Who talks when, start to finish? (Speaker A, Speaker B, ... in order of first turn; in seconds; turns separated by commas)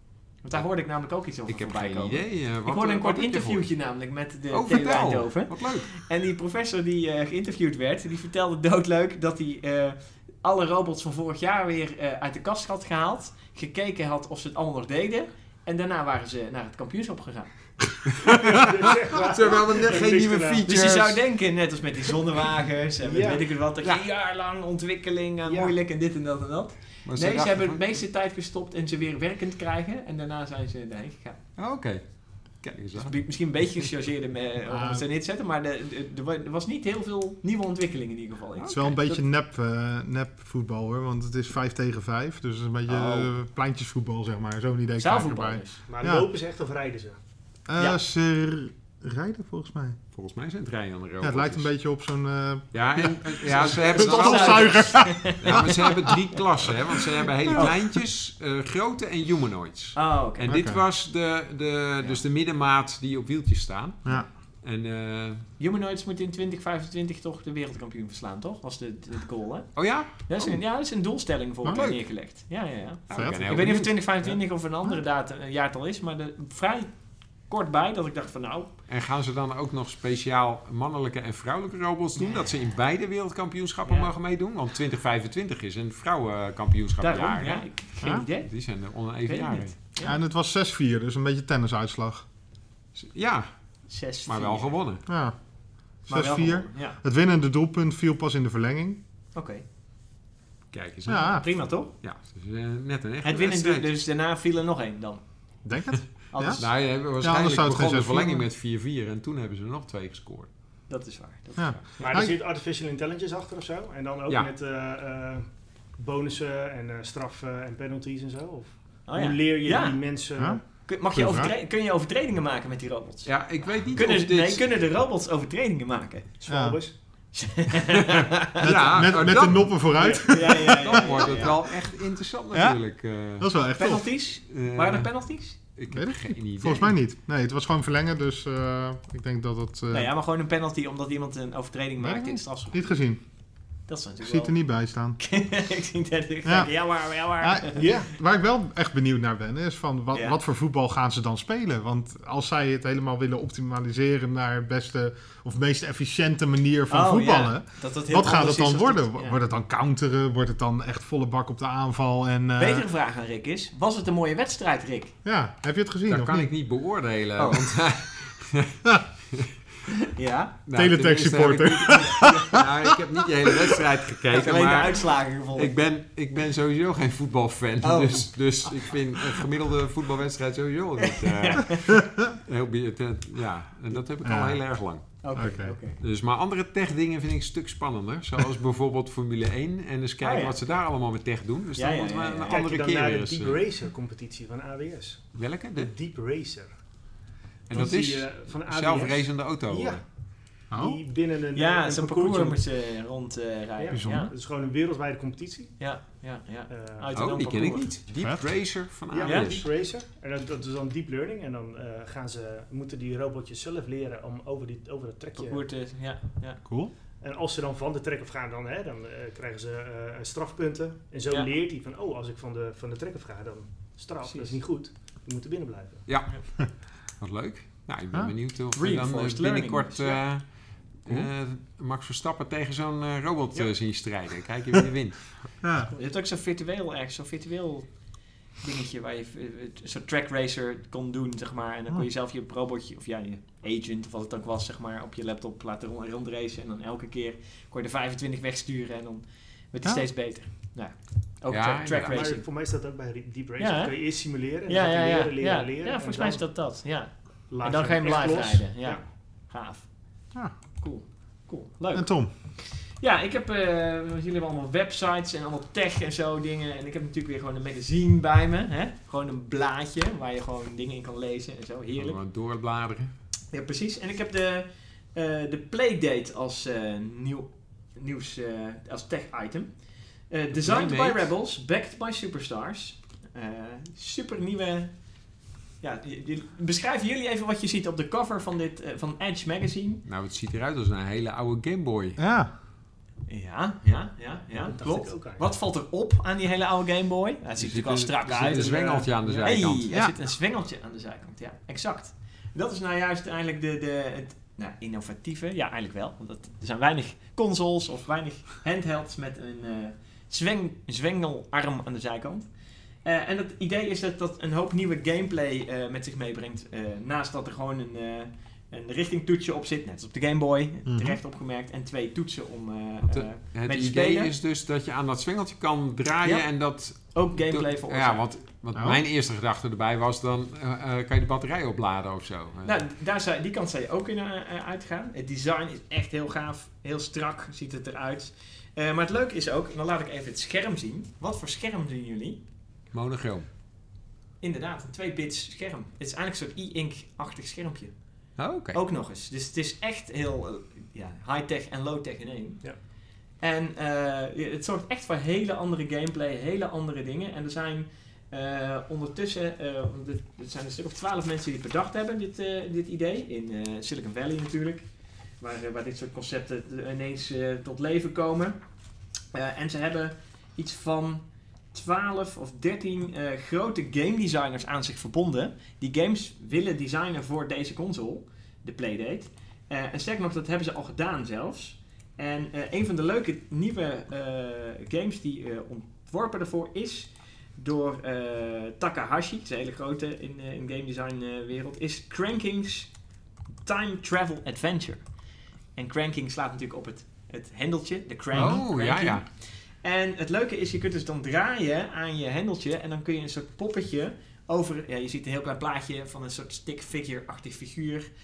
Speaker A: 0.4-17.5, Speaker B: 1.5-3.7, Speaker B: 4.5-5.9, Speaker C: 18.2-20.6, Speaker B: 19.2-21.2, Speaker A: 20.7-31.4, Speaker C: 23.0-23.5, Speaker C: 25.5-25.7, Speaker B: 27.1-27.8, Speaker B: 31.6-33.2, Speaker A: 33.0-39.2, Speaker D: 34.7-35.0, Speaker D: 38.7-46.3, Speaker A: 42.9-43.2, Speaker A: 45.0-45.8, Speaker C: 45.9-47.2, Speaker D: 47.7-50.0, Speaker B: 50.1-51.7, Speaker D: 51.2-56.2, Speaker B: 52.7-65.5, Speaker A: 53.7-55.9, Speaker A: 60.0-60.5, Speaker D: 60.5-60.8, Speaker A: 65.6-77.0, Speaker B: 69.8-70.6, Speaker B: 71.7-72.0, Speaker D: 73.1-73.8, Speaker B: 73.1-74.4, Speaker A: 77.5-78.7, Speaker B: 78.9-89.8, Speaker A: 83.9-84.1, Speaker A: 87.0-88.5, Speaker A: 89.2-90.2, Speaker D: 90.0-92.2, Speaker B: 93.0-93.5, Speaker A: 93.9-94.7, Speaker B: 94.3-95.0, Speaker D: 95.1-95.4, Speaker D: 96.0-99.0, Speaker A: 96.1-97.0, Speaker A: 99.3-99.6, Speaker B: 100.7-101.5, Speaker D: 101.1-101.4, Speaker A: 101.2-101.9, Speaker B: 102.0-103.9, Speaker A: 103.2-105.2, Speaker D: 105.7-108.5, Speaker A: 106.3-106.7, Speaker B: 106.6-110.5, Speaker A: 110.9-112.2, Speaker D: 111.6-112.4, Speaker C: 112.0-120.6, Speaker A: 119.1-120.0, Speaker D: 120.4-121.5, Speaker A: 120.8-126.3, Speaker B: 123.2-124.6, Speaker C: 126.4-126.9, Speaker D: 126.5-126.8, Speaker A: 127.3-128.7, Speaker B: 128.6-133.5, Speaker D: 128.6-130.8, Speaker C: 130.0-130.2, Speaker A: 130.3-131.6, Speaker D: 132.5-132.8, Speaker D: 133.4-134.1, Speaker A: 133.8-135.6, Speaker B: 134.5-136.9, Speaker D: 135.9-140.1, Speaker A: 139.9-142.9, Speaker D: 142.0-143.2, Speaker A: 143.9-144.6, Speaker D: 144.2-145.2, Speaker A: 145.2-147.9, Speaker D: 146.4-146.7, Speaker D: 147.4-162.8, Speaker C: 147.8-148.1, Speaker A: 150.1-150.4, Speaker A: 156.9-159.4, Speaker A: 162.6-165.2, Speaker D: 165.2-166.5, Speaker B: 166.1-169.5, Speaker A: 167.4-167.7, Speaker A: 170.1-170.6, Speaker B: 170.7-193.6, Speaker D: 170.7-173.0, Speaker A: 174.3-175.7, Speaker A: 177.8-179.0, Speaker A: 181.0-181.9, Speaker D: 184.2-184.6, Speaker A: 185.2-186.0, Speaker D: 185.3-185.8, Speaker A: 190.2-190.6, Speaker A: 191.8-192.6, Speaker C: 192.5-196.7, Speaker B: 195.3-195.9, Speaker C: 197.7-200.0, Speaker B: 197.7-200.0, Speaker C: 200.6-202.6, Speaker D: 200.7-201.0, Speaker A: 201.5-204.3, Speaker C: 203.8-205.8, Speaker D: 203.9-204.3, Speaker A: 205.8-207.9, Speaker C: 206.7-207.1, Speaker B: 207.2-209.7, Speaker D: 208.2-208.5, Speaker C: 209.1-215.7, Speaker A: 209.2-209.6, Speaker A: 215.4-216.6, Speaker D: 216.7-216.9, Speaker C: 217.2-226.0, Speaker A: 224.2-224.6, Speaker B: 226.1-235.4, Speaker A: 228.7-230.2, Speaker D: 235.6-235.9, Speaker A: 235.9-252.4, Speaker B: 251.5-252.3, Speaker C: 252.1-256.4, Speaker A: 253.6-254.0, Speaker A: 254.7-259.9, Speaker C: 257.5-259.0, Speaker A: 260.8-272.2, Speaker D: 261.9-262.3, Speaker B: 272.0-273.1, Speaker A: 273.5-279.8, Speaker A: 280.3-285.1, Speaker B: 280.6-281.3, Speaker A: 285.8-290.0, Speaker B: 290.1-292.2, Speaker D: 292.2-292.5, Speaker A: 293.3-312.5, Speaker C: 294.6-295.5, Speaker B: 297.6-299.9, Speaker C: 299.2-299.5, Speaker A: 313.0-324.3, Speaker D: 320.9-321.2, Speaker B: 323.1-332.8, Speaker A: 327.0-328.2, Speaker D: 328.7-329.0, Speaker A: 332.6-342.4, Speaker B: 342.9-343.5, Speaker A: 344.4-348.0, Speaker B: 348.4-348.8, Speaker A: 348.7-352.6, Speaker A: 353.4-364.9, Speaker A: 365.4-368.6, Speaker A: 369.3-392.9, Speaker A: 393.6-395.1, Speaker A: 395.8-408.1, Speaker D: 398.3-398.6, Speaker B: 398.4-399.2